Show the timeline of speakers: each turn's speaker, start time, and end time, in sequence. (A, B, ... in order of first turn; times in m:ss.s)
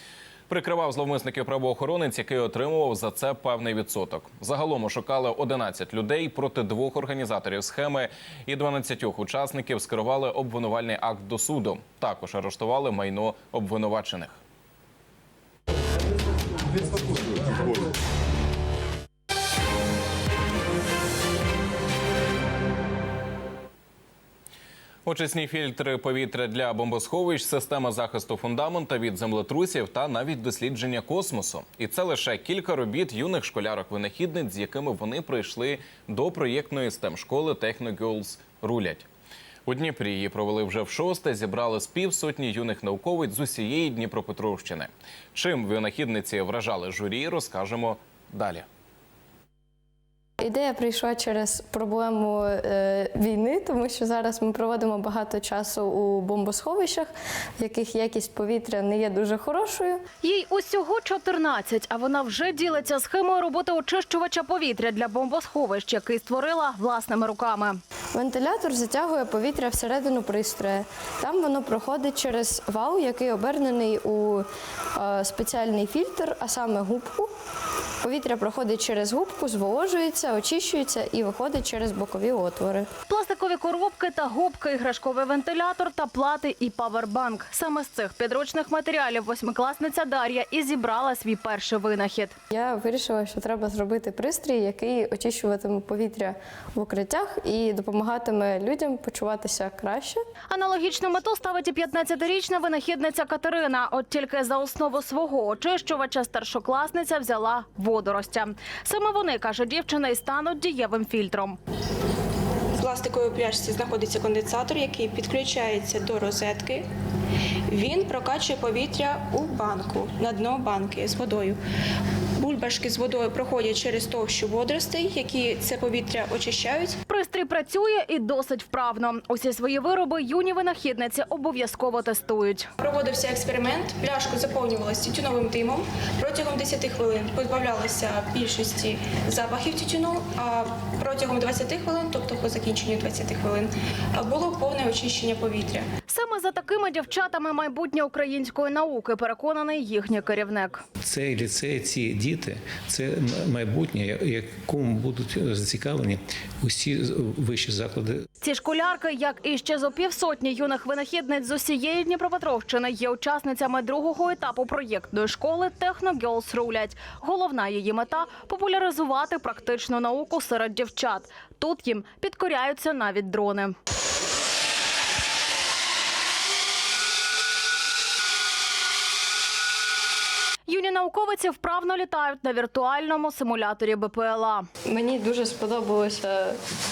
0:00.5-0:14.4 A
0:25.1-0:39.1 A
0:39.7-0:48.6 A
0:50.4-1:00.0 B
1:00.2-1:07.8 C
1:08.2-1:17.3 B
1:18.0-1:22.8 B
1:23.1-1:32.3 C
1:32.6-1:40.2 B
1:40.5-1:51.6 C
1:52.8-1:56.9 D
1:57.7-2:01.6 D
2:02.4-2:07.0 D
2:07.1-2:12.7 C
2:12.8-2:25.9 D
2:26.1-2:30.8 C
2:31.0-2:38.2 E
2:38.4-2:53.8 C
3:00.7-3:04.7 C
3:04.9-3:06.6 B